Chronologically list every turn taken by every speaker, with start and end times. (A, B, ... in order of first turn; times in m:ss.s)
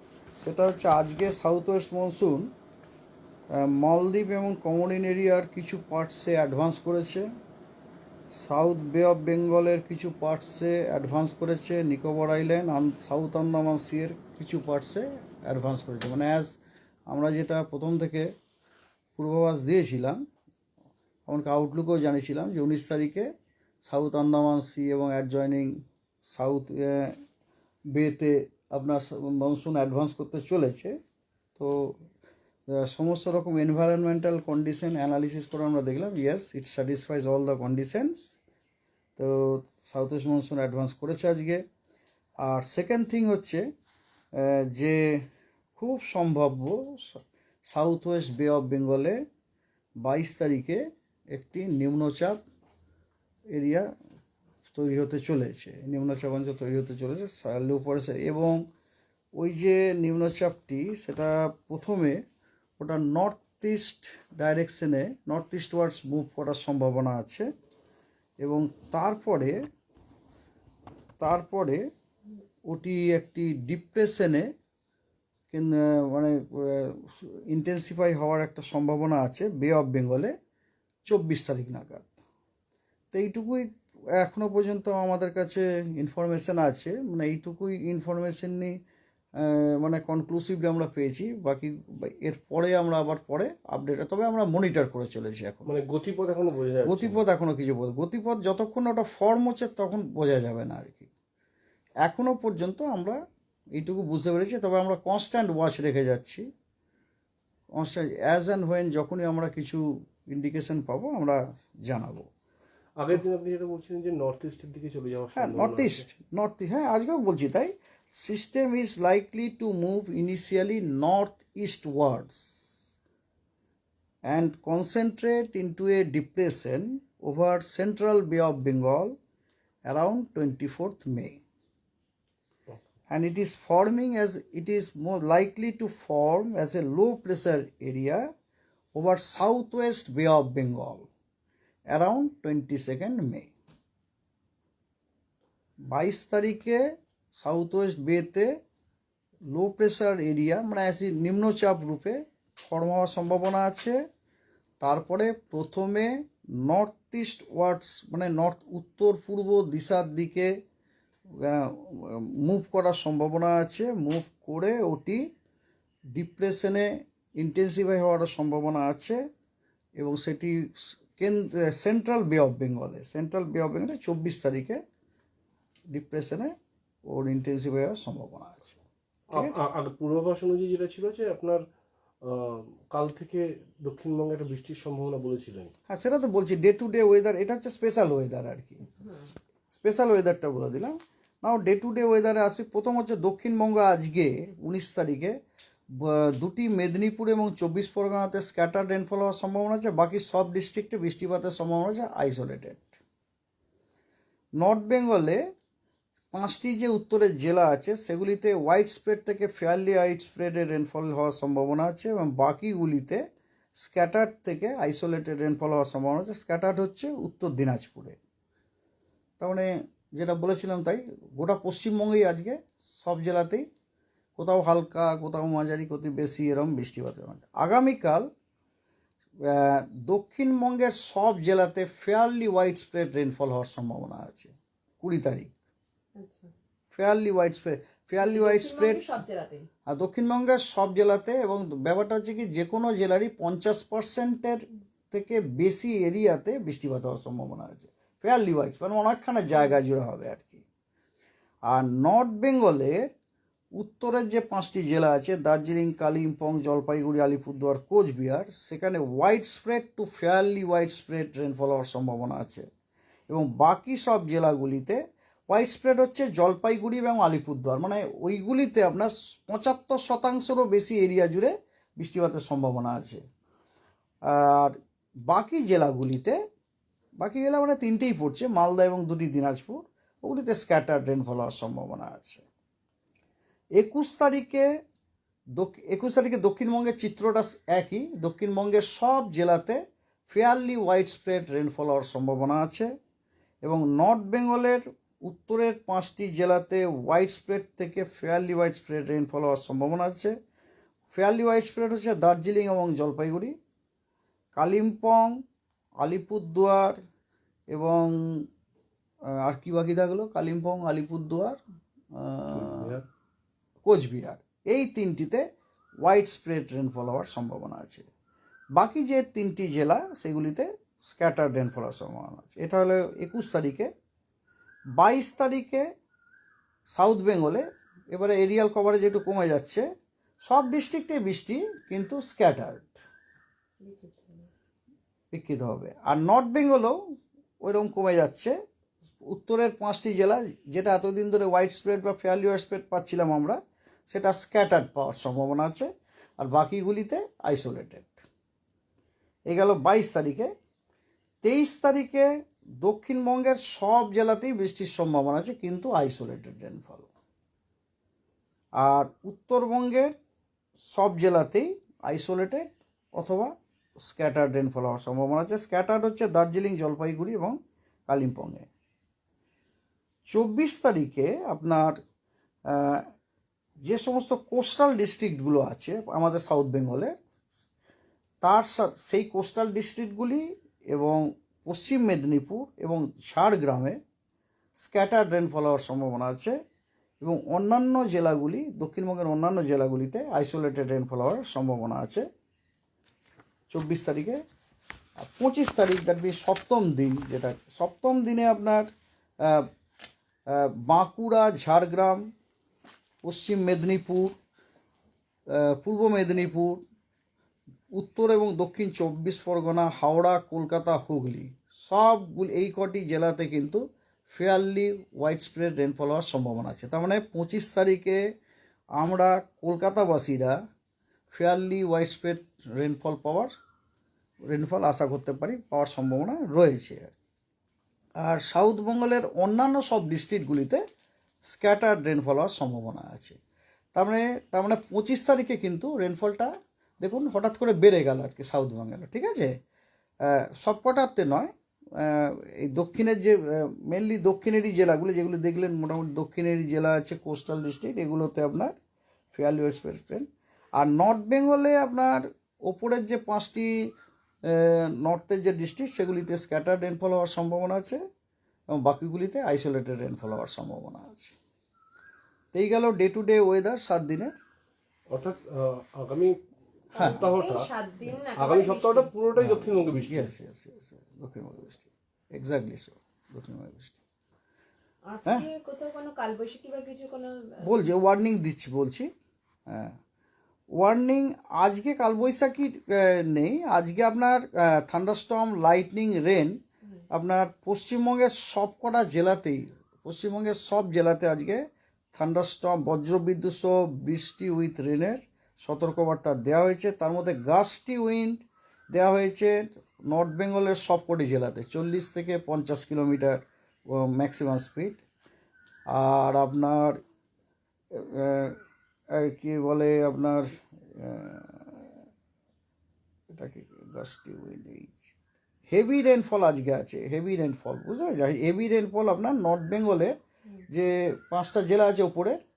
0:00.4-0:02.5 A
0:03.5-0:07.3 A
0:08.3-0:16.6 A
0:17.1-0:18.3 A
0:19.2-0:20.2 A
0:21.3-0:23.3 A
0:23.8-0:27.2 A
0:27.9-0:30.9 A
0:31.6-0:32.0 A
0:32.7-0:38.3 A
0:39.2-0:41.6 A
0:42.4-0:43.6 A
0:44.3-0:45.2 A
0:45.8-0:49.2 A
0:50.0-0:50.8 A
0:51.3-0:52.4 A
0:53.5-0:53.8 A
0:54.6-0:58.6 A
0:59.4-1:02.2 A
1:02.8-1:07.4 A
1:08.4-1:09.6 A
1:11.2-1:11.8 A
1:12.7-1:14.5 A
1:15.5-1:20.3 A
1:21.0-1:22.2 A
1:23.1-1:28.7 A
1:29.4-1:35.7 A
1:35.6-1:37.2 B
1:36.8-1:41.1 A
1:42.0-1:43.2 A
1:43.7-1:46.4 A
1:47.7-1:52.3 A
1:53.0-1:56.0 B
1:55.3-2:02.8 A
2:04.2-2:09.2 A
2:09.8-2:11.4 A
2:13.1-2:18.2 A
2:18.9-2:21.1 A
2:21.9-2:23.5 A
2:25.9-2:26.8 A
2:27.3-2:28.5 A
2:29.5-2:34.0 A
2:34.8-2:40.5 A
2:41.4-2:45.2 A
2:46.1-2:49.2 A
2:50.0-2:54.8 A
2:55.9-2:56.5 A
2:57.1-2:58.8 A
2:59.3-3:01.6 B
3:02.2-3:05.7 B
3:05.9-3:08.8 A
3:09.7-3:15.3 A
3:16.0-3:22.9 A
3:24.6-3:25.4 A
3:26.3-3:33.2 A
3:33.8-3:38.2 A
3:39.4-3:43.6 A
3:44.4-3:48.3 A
3:49.4-3:55.5 A
3:56.2-3:56.5 C
3:56.9-3:59.1 A
3:58.2-3:59.7 C
3:59.9-4:10.6 A
4:11.7-4:13.1 A
4:13.8-4:22.6 A
4:23.3-4:25.0 A
4:25.5-4:33.2 A
4:34.3-4:34.8 A
4:35.3-4:36.3 A
4:37.2-4:42.4 A
4:43.8-4:44.6 A
4:45.6-4:52.9 A
4:53.6-5:00.3 A
5:01.1-5:03.5 A
5:04.5-5:05.3 A
5:06.0-5:07.0 A
5:07.7-5:08.4 A
5:09.4-5:11.6 A
5:12.2-5:12.9 A
5:12.5-5:13.0 B
5:13.8-5:15.4 A
5:16.0-5:18.1 A
5:18.7-5:23.9 A
5:25.0-5:25.8 A
5:26.9-5:29.8 A
5:30.4-5:33.0 A
5:33.8-5:34.5 C
5:35.3-5:37.0 A
5:37.6-5:38.5 A
5:39.2-5:43.6 A
5:44.1-5:45.9 A
5:46.4-5:48.2 A
5:49.5-5:50.5 A
5:51.4-5:52.3 A
5:52.8-5:57.1 A
5:58.8-6:00.1 A
6:00.8-6:07.6 A
6:08.1-6:08.7 A
6:10.3-6:12.0 A
6:12.7-6:13.0 A
6:13.8-6:17.2 A
6:18.4-6:24.0 A
6:24.8-6:26.5 A
6:27.2-6:32.2 A
6:33.7-6:34.4 A
6:35.2-6:38.9 A
6:39.4-6:39.7 A
6:40.5-6:42.2 A
6:43.2-6:44.3 A
6:45.5-6:46.8 A
6:47.9-6:58.2 A
6:59.0-7:00.5 A
7:01.3-7:03.5 A
7:04.5-7:07.1 A
7:08.2-7:10.8 A
7:11.5-7:13.4 A
7:13.9-7:16.5 A
7:17.0-7:19.5 A
7:20.2-7:28.8 A
7:29.3-7:33.7 A
7:34.4-7:38.0 A
7:38.7-7:41.3 A
7:42.5-7:44.4 A
7:45.1-7:46.4 B
7:46.9-7:49.1 C
7:47.0-7:47.3 A
7:47.0-7:50.3 B
7:49.4-7:54.0 A
7:55.0-7:57.9 C
7:57.6-7:59.1 A
7:59.7-7:59.9 A
8:00.8-8:06.6 A
8:07.1-8:11.6 A
8:12.1-8:25.0 A
8:25.9-8:27.0 A
8:27.9-8:28.6 A
8:29.1-8:31.9 A
8:33.3-8:35.1 A
8:35.7-8:40.1 A
8:40.7-8:42.4 A